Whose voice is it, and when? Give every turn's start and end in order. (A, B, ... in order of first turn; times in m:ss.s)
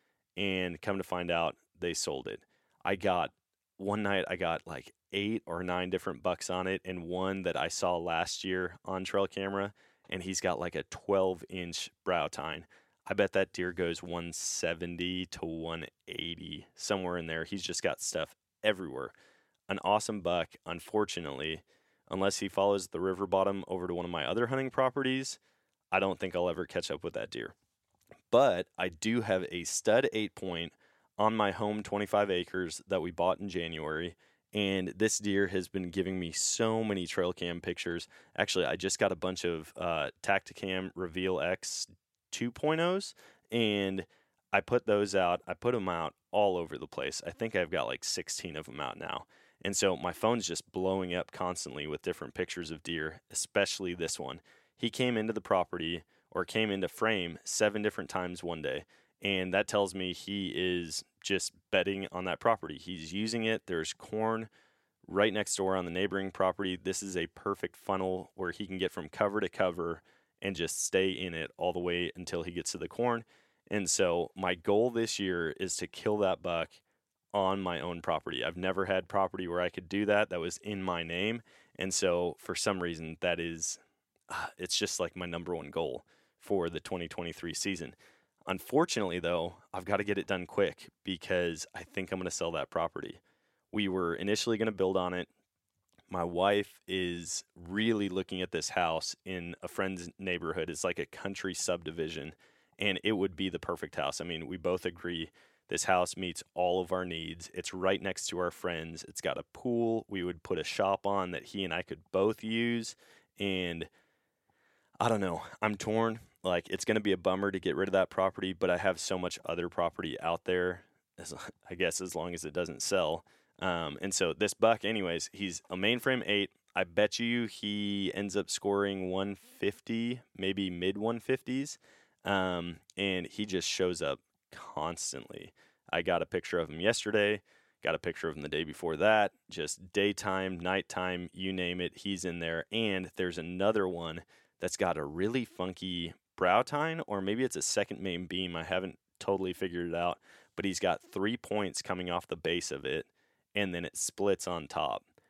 0:00.4-0:19.1 A
0:19.7-0:25.4 A
0:25.9-0:27.5 A
0:28.3-1:04.5 A
1:05.0-1:16.8 A
1:17.3-1:28.0 A
1:28.5-1:33.2 A
1:33.7-1:35.3 A
1:36.1-1:53.9 A
1:55.0-2:35.0 A